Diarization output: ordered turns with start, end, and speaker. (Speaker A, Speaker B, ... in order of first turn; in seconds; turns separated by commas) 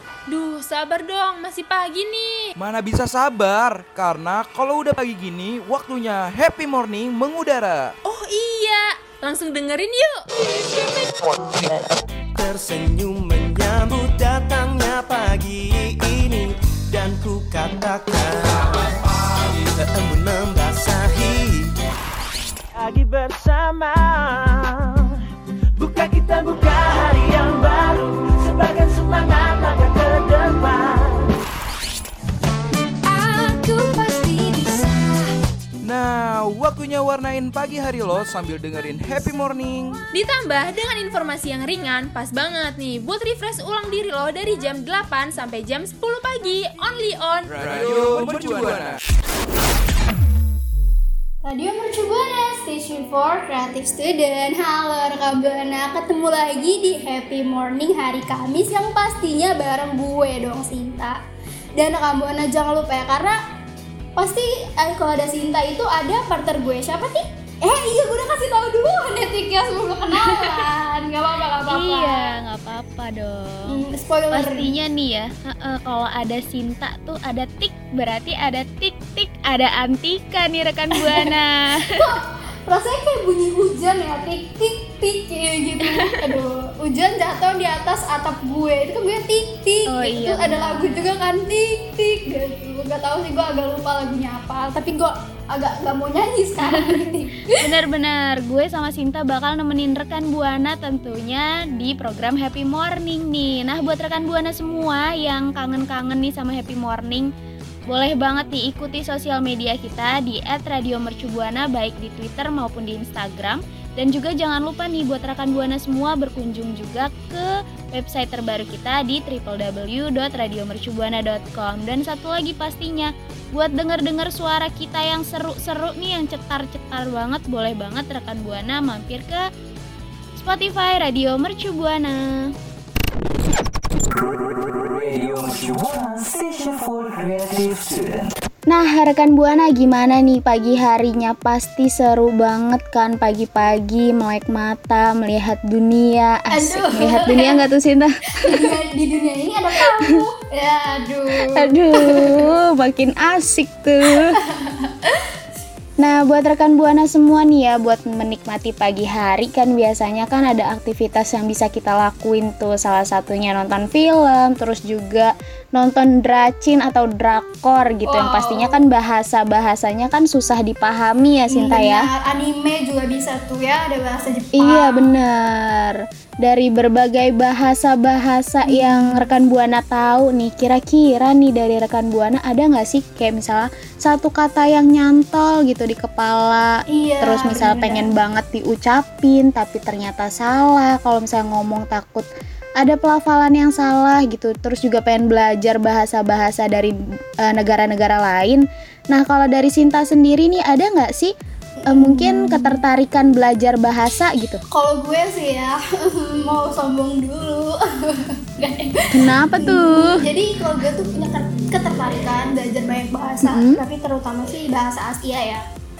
Speaker A: 0.3-2.5, Speaker B: 2.6-7.9, Speaker A: 8.1-11.2, Speaker C: 12.4-21.7, Speaker C: 22.8-25.1, Speaker C: 25.8-31.3, Speaker A: 33.2-34.6, Speaker D: 33.5-34.2, Speaker B: 35.9-40.0, Speaker A: 40.1-47.6, Speaker B: 47.5-49.0, Speaker D: 51.5-61.2, Speaker D: 61.8-63.4, Speaker D: 64.2-72.3, Speaker E: 70.2-70.6, Speaker E: 71.7-73.8, Speaker D: 73.7-74.7, Speaker E: 74.3-82.0, Speaker D: 81.0-97.7, Speaker E: 86.0-86.3, Speaker E: 89.9-91.1, Speaker E: 96.6-97.0, Speaker E: 97.6-107.3, Speaker E: 107.9-129.4, Speaker E: 130.4-132.5, Speaker E: 138.7-148.7, Speaker D: 146.5-147.6, Speaker D: 148.4-152.4, Speaker E: 151.6-154.3, Speaker D: 154.4-154.9, Speaker E: 156.0-172.0, Speaker D: 168.1-168.8, Speaker D: 171.5-175.1, Speaker E: 174.6-192.3, Speaker D: 178.7-179.3, Speaker D: 186.9-188.1, Speaker E: 192.8-201.3, Speaker D: 201.8-202.8, Speaker E: 201.9-204.6, Speaker D: 204.7-215.6, Speaker E: 209.2-210.2, Speaker E: 213.5-213.8